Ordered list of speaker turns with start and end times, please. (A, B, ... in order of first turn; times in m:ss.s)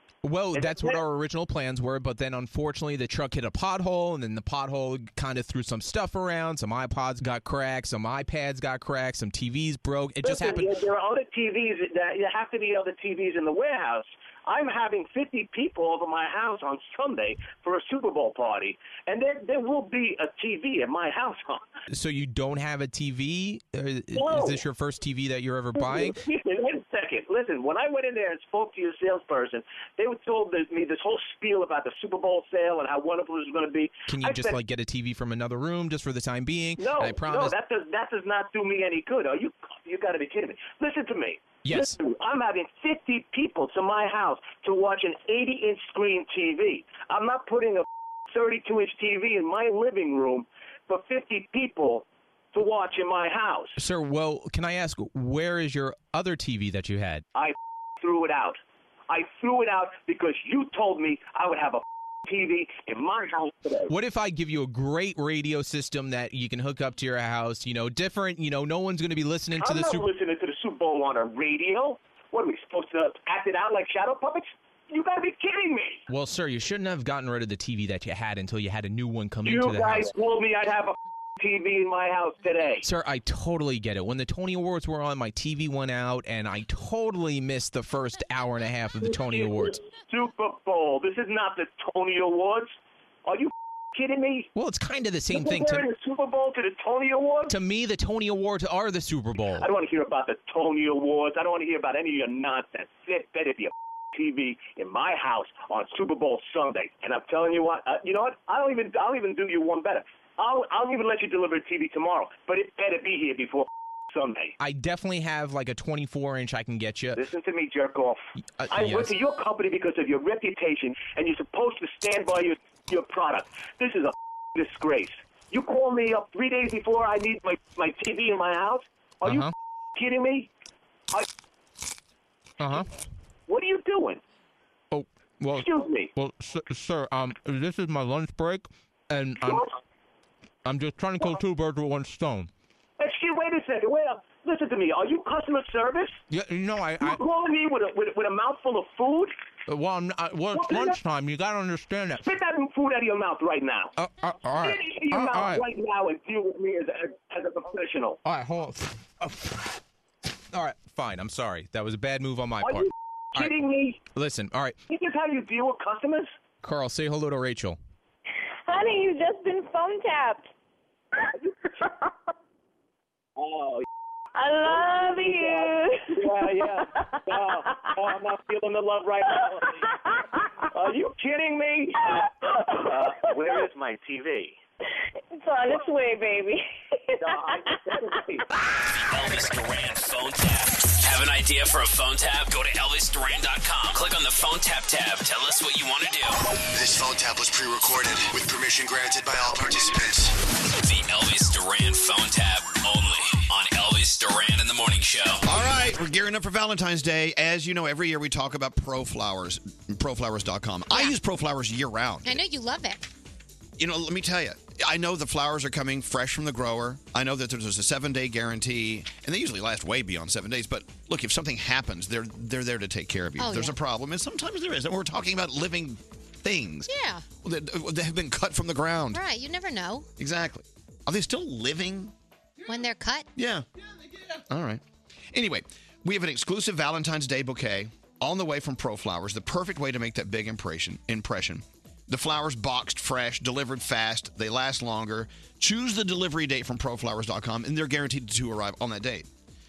0:00.2-0:10.7 A
0:00.5-0:01.0 B
0:10.2-0:21.6 B
0:21.9-0:26.2 A
0:24.1-0:24.6 B
0:25.8-0:34.6 B
0:34.1-0:37.5 A
0:36.8-0:53.8 B
0:41.6-0:42.0 A
0:53.8-0:57.2 A
0:57.4-1:03.9 B
1:03.9-1:10.1 A
1:09.6-1:16.0 B
1:16.1-1:20.1 A
1:19.4-1:22.8 B
1:22.8-1:29.8 A
1:29.0-1:32.8 B
1:33.3-1:34.5 B
1:34.6-1:35.8 A
1:35.3-1:37.5 B
1:37.5-1:39.7 A
1:39.6-1:54.6 B
1:54.6-1:57.2 A
1:57.2-1:58.2 B
1:58.6-1:59.1 A
1:58.7-2:10.5 B
2:09.2-2:09.5 A
2:12.6-2:12.9 A
2:13.5-2:14.2 B
2:14.9-2:19.6 A
2:15.5-2:16.1 B
2:20.6-2:22.5 A
2:23.0-2:26.2 B
2:26.3-2:27.2 A
2:27.0-2:29.3 B
2:29.7-2:32.2 A
2:30.5-2:31.0 B
2:32.2-2:33.9 B
2:34.0-2:35.6 A
2:34.6-2:38.2 B
2:38.2-2:39.7 A
2:40.5-2:43.5 A
2:42.6-2:44.0 B
2:44.1-2:44.8 A
2:44.9-2:46.3 B
2:46.6-2:47.8 A
2:48.7-2:50.5 C
2:53.4-2:53.8 B
2:54.4-2:58.1 C
2:54.6-2:59.9 B
2:59.3-3:00.6 C
3:00.7-3:04.6 B
3:02.0-3:03.7 C
3:05.3-3:08.2 C
3:07.2-3:08.5 B
3:08.9-3:16.4 D
3:16.7-3:20.4 E
3:20.7-3:25.5 D
3:25.4-3:32.4 F
3:30.9-3:31.2 G
3:32.2-3:33.1 G
3:33.8-3:46.9 F
3:43.4-3:43.8 G
3:46.9-3:47.2 G
3:47.4-3:49.2 F
3:49.1-3:50.1 G
3:50.2-3:52.1 F
3:52.7-3:53.3 G
3:53.4-3:53.7 F
3:54.5-3:54.8 F
3:55.3-4:09.3 F